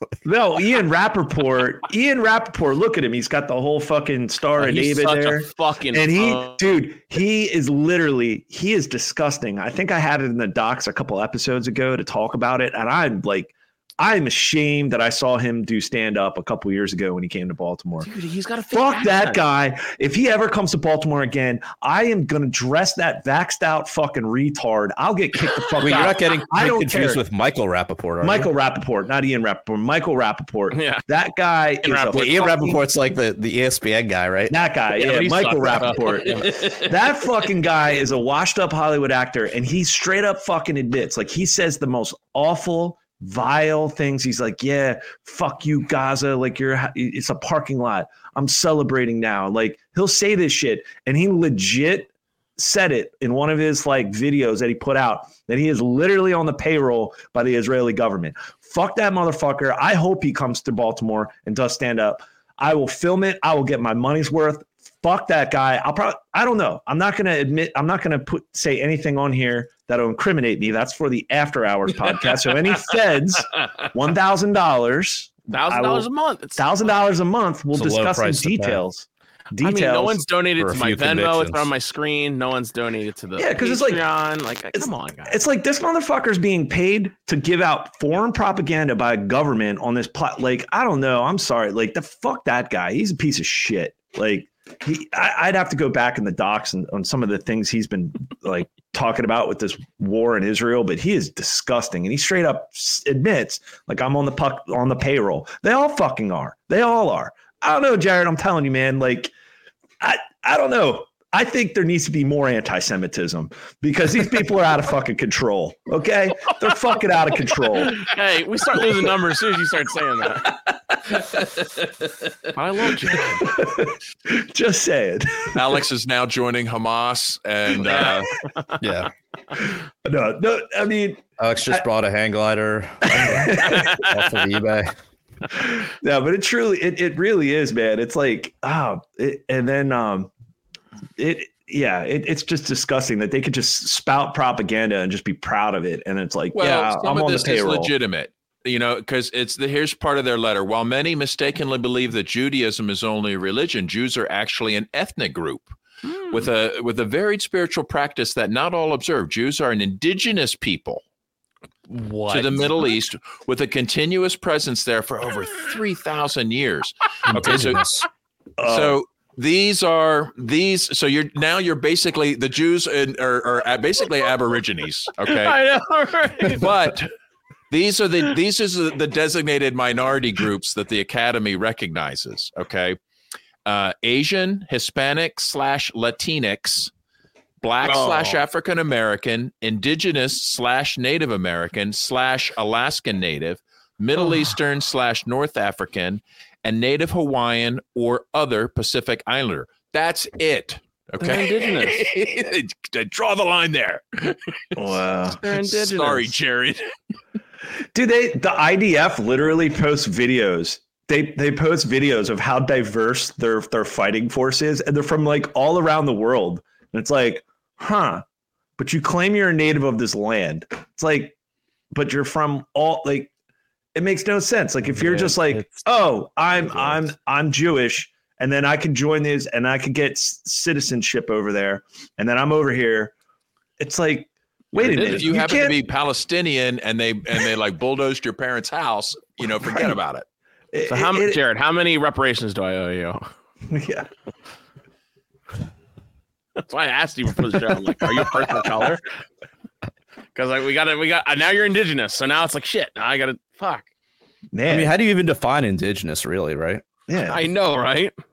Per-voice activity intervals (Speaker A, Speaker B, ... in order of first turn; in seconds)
Speaker A: 0.2-18.1, 18.7-27.2, 28.2-32.8, 34.5-80.2, 83.4-84.0, 84.8-109.3, 110.0-118.1, 118.8-119.1, 120.5-121.6, 123.5-125.8, 130.0-131.8, 133.1-134.0, 135.5-140.3, 141.2-147.9, 168.6-169.0, 204.8-205.4, 207.9-218.2, 218.8-221.3, 221.9-223.3, 223.9-233.1, 233.8-235.8, 240.7-241.4, 243.7-244.1, 248.3-248.9, 254.5-254.9, 257.1-257.4
Speaker B: 4.6-6.7, 18.0-19.4, 25.8-26.1, 30.7-31.0, 31.8-32.3, 34.9-37.0, 75.5-76.6, 79.6-85.4, 117.8-120.5, 122.5-123.5, 127.8-128.8, 133.6-134.2, 156.0-156.5, 161.9-162.9, 175.3-176.7, 187.8-188.4, 201.2-202.0, 205.4-206.3, 224.9-225.8, 226.7-227.0, 240.9-243.3, 246.6-249.0, 250.3-253.9, 257.3-258.1
Speaker C: 25.8-28.5, 32.1-34.5, 77.7-78.8, 80.6-81.7, 128.8-129.1, 131.4-135.0, 167.3-168.1, 254.7-256.8
Speaker D: 125.5-128.3, 146.6-155.8, 156.3-161.0, 162.3-167.8, 168.7-175.6, 176.5-177.1, 177.7-183.0, 183.7-186.9, 187.6-206.9, 234.8-240.3